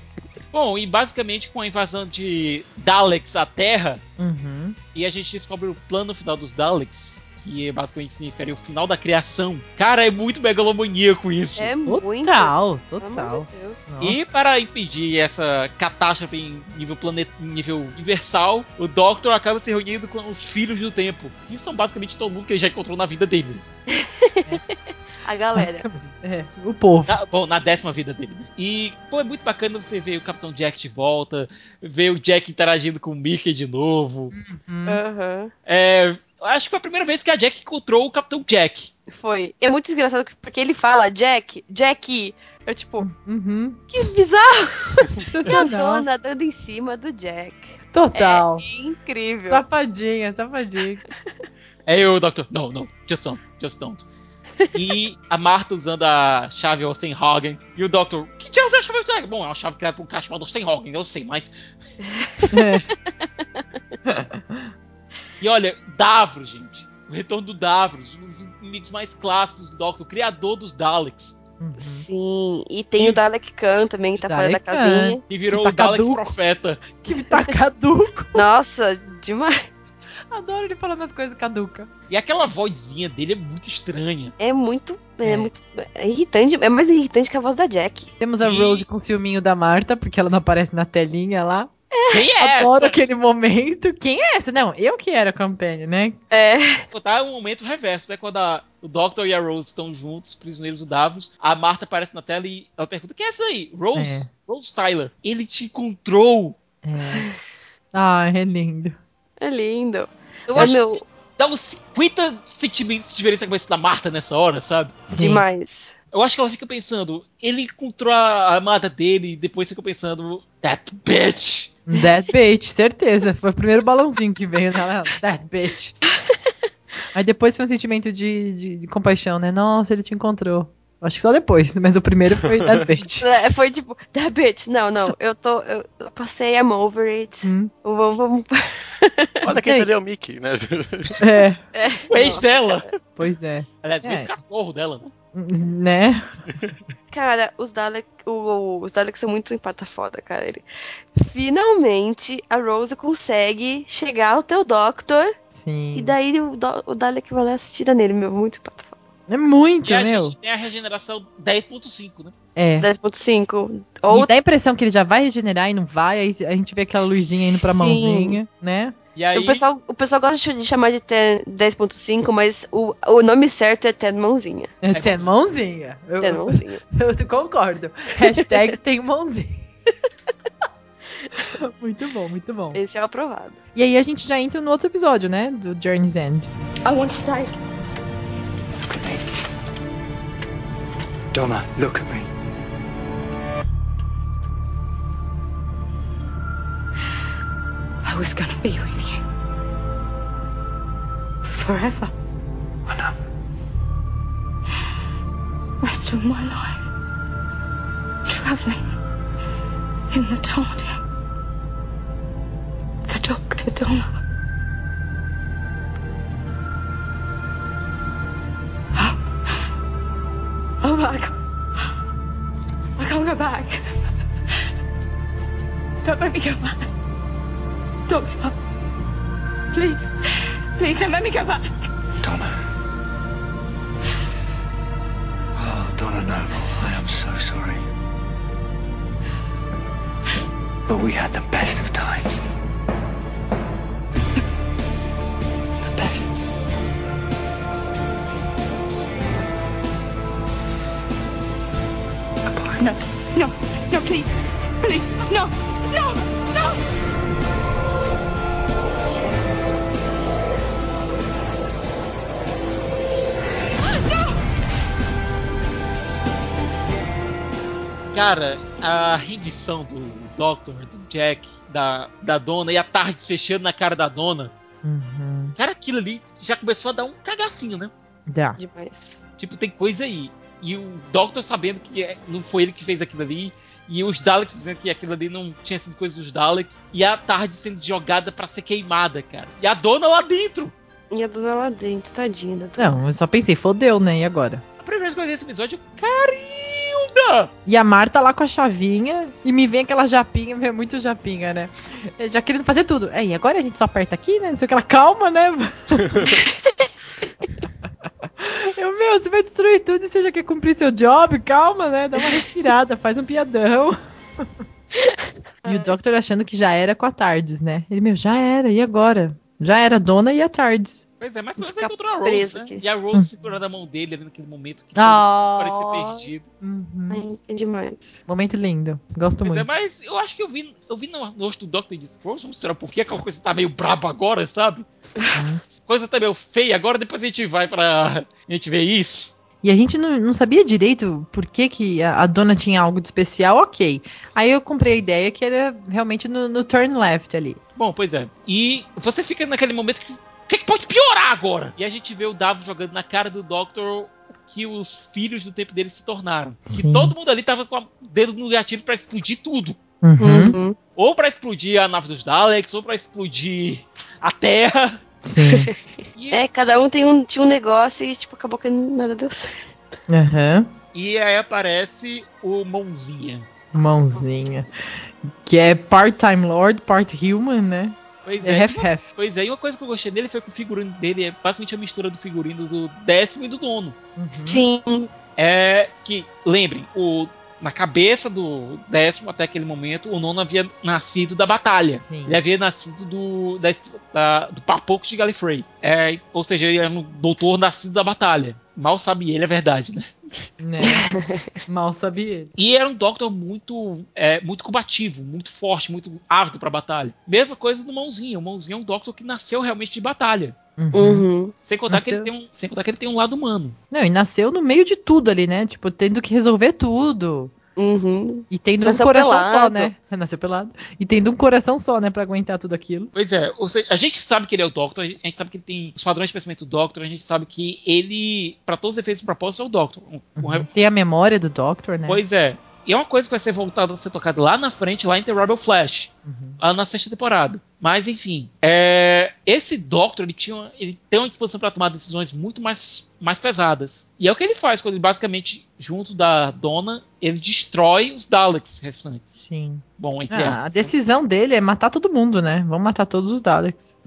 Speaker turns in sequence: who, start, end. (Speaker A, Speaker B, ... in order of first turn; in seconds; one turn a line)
Speaker A: 0.5-4.0
Speaker B: 4.2-4.8
Speaker A: 5.0-11.7
Speaker C: 11.6-13.8
Speaker B: 11.9-14.4
Speaker A: 14.0-23.6
Speaker C: 23.9-24.6
Speaker C: 25.2-25.9
Speaker B: 25.6-27.2
Speaker A: 27.1-34.3
Speaker B: 34.3-35.0
Speaker C: 34.9-35.5
Speaker A: 35.7-38.9
Speaker C: 39.1-43.1
Speaker B: 43.0-43.8
Speaker C: 43.9-49.6
Speaker B: 45.2-46.1
Speaker B: 47.9-48.6
Speaker B: 49.5-51.0
Speaker A: 51.9-54.0
Speaker A: 54.7-61.5
Speaker B: 62.5-62.9
Speaker B: 64.1-64.7
Speaker A: 65.4-71.4
Speaker B: 71.6-72.1
Speaker C: 71.8-75.2
Speaker A: 73.0-73.2
Speaker B: 74.2-76.3
Speaker A: 75.3-76.9
Speaker B: 77.0-78.5
Speaker C: 78.3-79.7
Speaker B: 80.3-81.9
Speaker A: 82.1-84.3
Speaker C: 84.4-88.1
Speaker B: 85.2-85.5
Speaker B: 88.2-91.7
Speaker A: 88.4-88.8
Speaker A: 92.1-93.0
Speaker B: 92.4-96.2
Speaker C: 96.3-96.8
Speaker A: 96.9-106.6
Speaker B: 104.0-104.3
Speaker B: 106.8-107.3
Speaker B: 107.9-109.0
Speaker C: 109.4-111.0
Speaker A: 110.5-115.0
Speaker B: 115.1-115.4
Speaker C: 115.2-115.9
Speaker A: 116.1-121.8
Speaker B: 121.9-126.0
Speaker B: 127.1-133.3
Speaker C: 133.2-139.4
Speaker B: 137.4-137.7
Speaker D: 139.4-141.4
Speaker B: 139.4-139.9
Speaker B: 141.2-141.6
Speaker C: 141.8-142.9
Speaker A: 142.1-142.9
Speaker B: 143.2-144.3
Speaker A: 143.8-145.1
Speaker B: 145.3-146.3
Speaker C: 147.1-150.6
Speaker C: 151.2-155.3
Speaker B: 155.5-156.2
Speaker C: 155.9-159.0
Speaker B: 159.3-160.4
Speaker A: 159.8-162.3
Speaker B: 162.6-162.9
Speaker C: 162.8-164.3
Speaker B: 164.1-168.9
Speaker C: 167.1-168.4
Speaker A: 169.2-169.7
Speaker C: 169.3-174.7
Speaker B: 174.8-179.6
Speaker A: 174.9-175.3
Speaker C: 176.2-176.8
Speaker B: 181.4-182.8
Speaker C: 182.7-183.6
Speaker B: 183.8-186.5
Speaker E: 186.9-187.6
Speaker F: 188.8-189.3
Speaker F: 191.3-192.3
Speaker E: 198.1-199.2
Speaker E: 201.5-202.1
Speaker F: 202.9-203.1
Speaker E: 205.8-206.9
Speaker E: 208.3-208.8
Speaker E: 210.1-211.0
Speaker E: 213.1-214.1
Speaker E: 219.0-219.2
Speaker E: 220.8-221.3
Speaker E: 223.0-223.8
Speaker E: 226.0-226.9
Speaker E: 228.1-228.6
Speaker E: 229.7-230.1
Speaker E: 230.8-231.8
Speaker F: 232.2-232.6
Speaker F: 235.6-237.8
Speaker F: 240.9-242.4
Speaker F: 245.8-246.3
Speaker E: 252.5-256.8
Speaker A: 268.1-274.5
Speaker B: 274.8-275.6
Speaker A: 275.6-277.9
Speaker B: 278.3-278.6
Speaker C: 278.6-279.2
Speaker A: 279.4-290.7
Speaker C: 291.1-293.0
Speaker B: 292.8-294.6
Speaker A: 294.8-297.5
Speaker B: 297.7-306.4
Speaker B: 308.4-314.0
Speaker B: 315.6-321.0
Speaker C: 315.7-315.9
Speaker A: 321.2-326.5
Speaker B: 321.6-321.9
Speaker C: 322.2-322.8
Speaker B: 323.1-323.6
Speaker B: 325.0-327.2
Speaker C: 327.1-328.2
Speaker B: 328.3-329.7
Speaker A: 329.4-334.9
Speaker B: 335.3-335.6
Speaker A: 335.8-339.3
Speaker B: 339.6-347.6
Speaker A: 347.8-359.8
Speaker B: 356.7-357.1
Speaker B: 360.0-360.6
Speaker C: 360.2-360.8
Speaker A: 361.0-365.0
Speaker B: 365.2-365.7
Speaker C: 365.4-365.7
Speaker A: 366.2-366.4
Speaker C: 366.3-369.6
Speaker B: 370.1-370.7
Speaker A: 370.9-373.5
Speaker B: 373.7-374.7
Speaker B: 375.3-379.1
Speaker A: 378.2-384.0
Speaker B: 384.2-384.6
Speaker C: 384.5-385.1
Speaker A: 385.4-400.1
Speaker B: 392.0-392.4
Speaker B: 400.6-401.1
Speaker C: 400.8-401.6
Speaker B: 401.7-402.5
Speaker A: 402.6-410.6
Speaker B: 410.8-411.3
Speaker C: 410.9-411.5
Speaker A: 411.7-413.8
Speaker B: 411.9-412.3
Speaker B: 413.9-417.5
Speaker C: 417.8-419.9
Speaker B: 418.5-423.1
Speaker A: 423.1-430.7
Speaker B: 430.4-432.2
Speaker A: 432.1-449.4
Speaker B: 436.3-436.6
Speaker B: 449.4-453.9
Speaker A: 450.0-450.6